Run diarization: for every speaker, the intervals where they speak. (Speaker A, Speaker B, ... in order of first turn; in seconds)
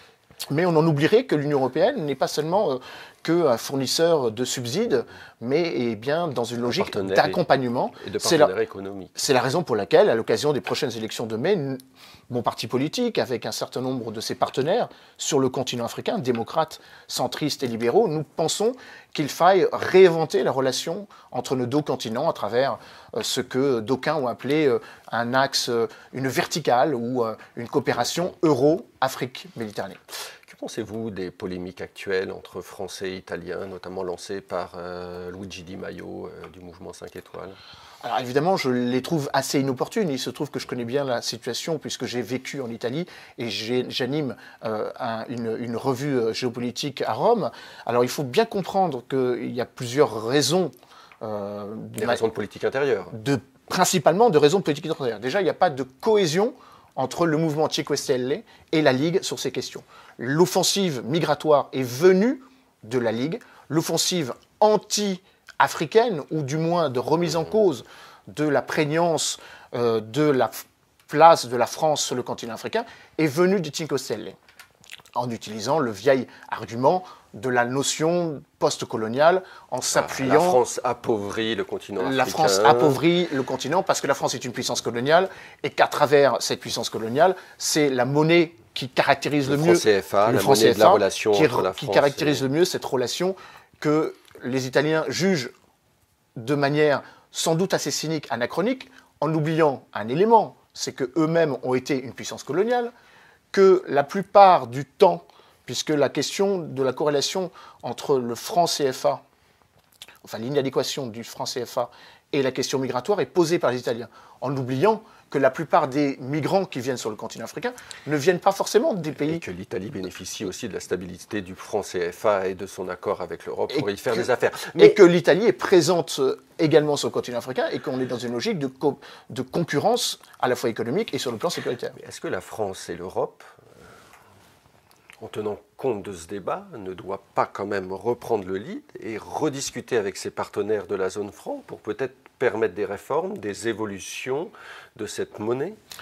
Speaker A: 0.5-8.5, 9.1-30.0, 38.0-52.2, 53.1-74.3, 75.1-80.6, 82.0-95.5, 96.3-102.9, 103.5-109.2, 110.2-119.4, 123.7-124.2, 124.8-131.9
Speaker B: 6.7-7.4, 8.0-9.2, 30.5-37.5, 52.0-53.1, 79.9-83.0, 89.5-92.4, 119.2-125.0, 131.9-133.4, 135.2-145.8